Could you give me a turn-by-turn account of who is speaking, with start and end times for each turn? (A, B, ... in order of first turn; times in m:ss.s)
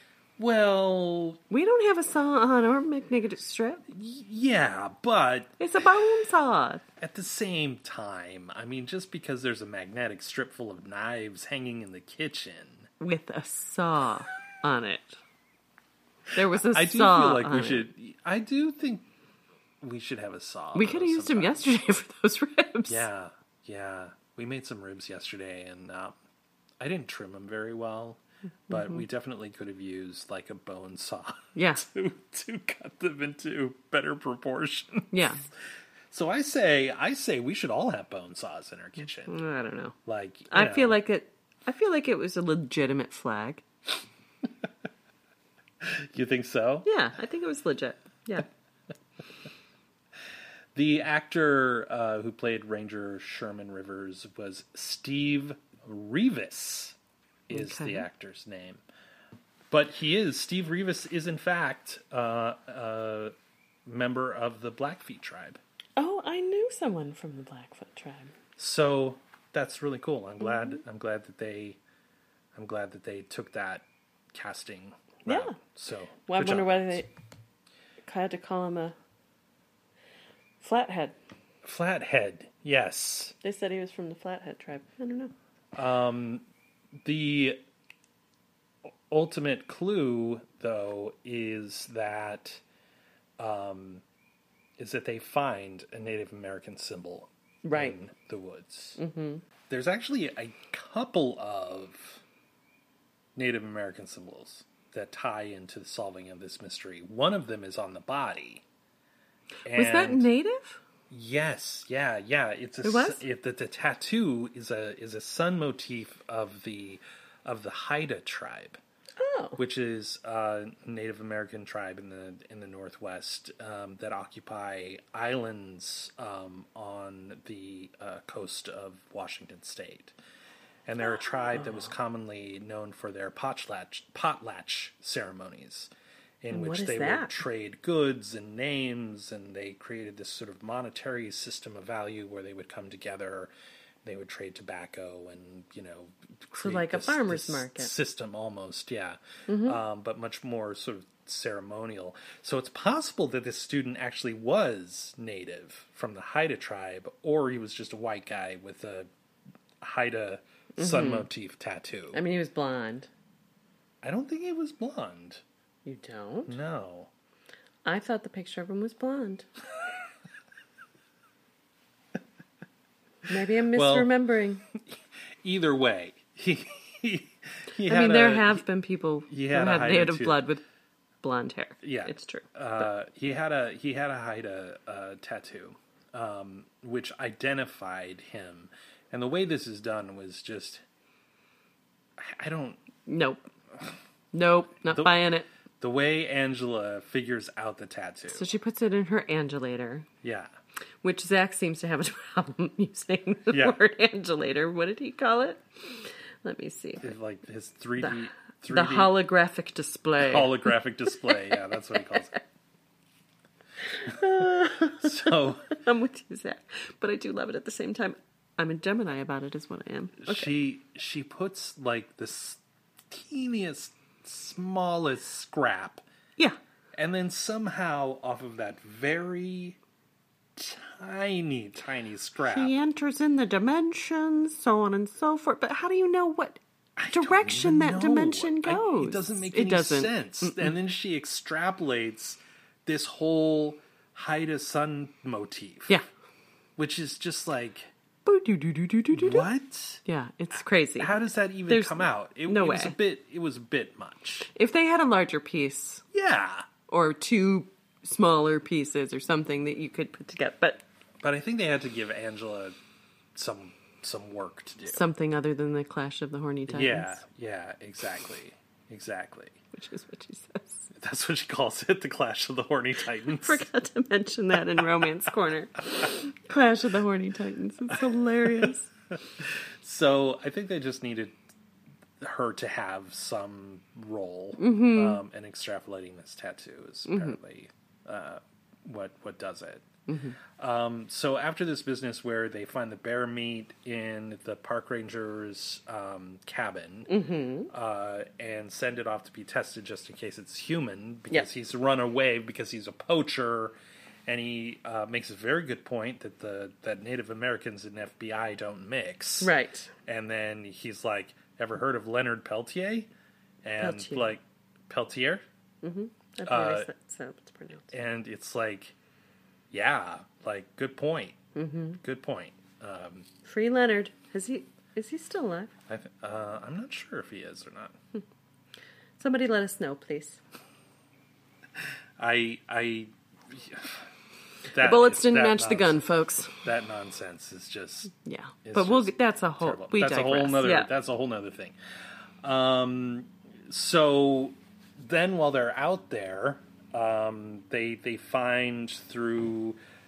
0:00.4-0:01.4 A
0:01.5-0:03.8 B
0:03.9-0:05.6 A
0:05.6-0:06.8 B
0:07.0-0:12.9 A
0:13.0-0:15.2 B
0:16.3-0:17.9 B
0:16.5-0:19.1 A
0:19.8-0:21.6 A
0:20.7-0:23.0 B
0:22.9-0:26.2 A
0:26.8-0:35.4 A
0:28.7-0:29.0 B
0:31.5-0:31.8 B
0:35.1-0:35.4 B
0:36.1-0:39.4 A
0:39.3-0:40.0 B
0:40.0-0:41.0 A
0:40.5-0:43.6 B
0:45.8-0:46.9 A
0:46.8-0:48.5 B
0:50.7-0:57.0 A
0:57.5-0:58.8 A
0:57.5-0:58.1 B
0:59.7-1:03.3 A
1:03.8-1:05.6 A
1:06.0-1:08.3 B
1:08.6-1:11.8 A
1:12.5-1:17.0 A
1:15.2-1:15.6 B
1:16.3-1:17.1 B
1:18.0-1:19.0 B
1:20.6-1:21.2 B
1:21.6-1:23.3 A
1:23.4-1:25.3 B
1:25.7-1:26.4 A
1:27.0-1:27.6 A
1:29.1-1:32.6 A
1:33.4-1:34.0 A
1:34.8-1:39.0 A
1:37.6-1:38.0 B
1:39.0-1:39.4 B
1:39.7-1:42.2 A
1:43.4-1:48.6 A
1:49.7-1:50.3 A
1:49.7-1:50.8 B
1:51.1-1:58.8 A
1:52.8-1:53.2 B
1:59.2-1:59.6 B
1:59.6-2:10.1 A
2:10.8-2:15.9 A
2:11.5-2:11.9 B
2:16.4-2:23.5 A
2:16.5-2:17.4 B
2:24.0-2:39.1 A
2:26.6-2:27.9 B
2:29.5-2:29.8 B
2:39.8-2:42.2 A
2:40.8-2:41.3 B
2:42.1-2:43.1 B
2:44.0-2:45.4 A
2:45.8-2:46.6 B
2:46.5-2:47.1 A
2:47.8-2:49.5 B
2:53.3-2:54.6 B
2:53.7-2:54.1 A
2:54.7-2:58.6 A
2:57.8-3:00.6 B
2:59.3-3:00.4 A
3:01.2-3:02.5 B
3:01.8-3:10.8 A
3:12.2-3:12.8 A
3:13.0-3:13.5 B
3:14.3-3:15.5 B
3:14.8-3:15.2 A
3:15.8-3:18.5 A
3:18.3-3:20.1 B
3:20.2-3:20.5 A
3:21.0-3:27.2 B
3:23.5-3:23.8 A
3:27.0-3:29.2 A
3:28.0-3:32.4 B
3:30.2-3:32.4 A
3:34.0-3:40.5 B
3:34.1-3:35.8 A
3:40.2-3:46.0 A
3:47.0-3:49.8 A
3:50.6-3:52.7 A
3:52.4-4:00.7 B
3:57.0-4:06.0 A
4:06.8-4:07.9 A
4:08.2-4:09.5 B
4:09.1-4:10.0 A
4:10.0-4:11.2 B
4:11.0-4:14.5 A
4:11.7-4:13.0 B
4:14.5-4:16.0 B
4:16.1-4:16.7 A
4:16.9-4:20.8 B
4:21.2-4:22.8 A
4:23.3-4:25.1 A
4:24.8-4:27.2 B
4:26.7-4:29.6 A
4:29.7-4:30.9 B
4:30.9-4:33.6 A
4:33.3-4:38.9 B
4:39.4-4:41.4 A
4:42.2-4:49.9 A
4:44.6-4:45.2 B
4:47.1-4:47.4 B
4:50.1-4:50.4 B
4:50.6-4:57.2 A
4:57.1-4:57.7 B
4:57.7-5:03.8 A
5:04.3-5:09.5 A
5:09.4-5:09.9 B
5:10.0-5:13.1 A
5:13.6-5:15.4 A
5:13.8-5:14.3 B
5:15.8-5:17.9 B
5:16.4-5:16.9 A
5:17.9-5:18.9 A
5:19.7-5:21.4 A
5:21.5-5:22.0 B
5:22.0-5:23.3 A
5:23.4-5:25.7 B
5:25.9-5:28.0 A
5:29.2-5:30.4 B
5:32.2-5:34.1 A
5:34.7-5:41.7 A
5:34.8-5:36.5 B
5:38.1-5:40.9 B
5:42.4-5:49.8 A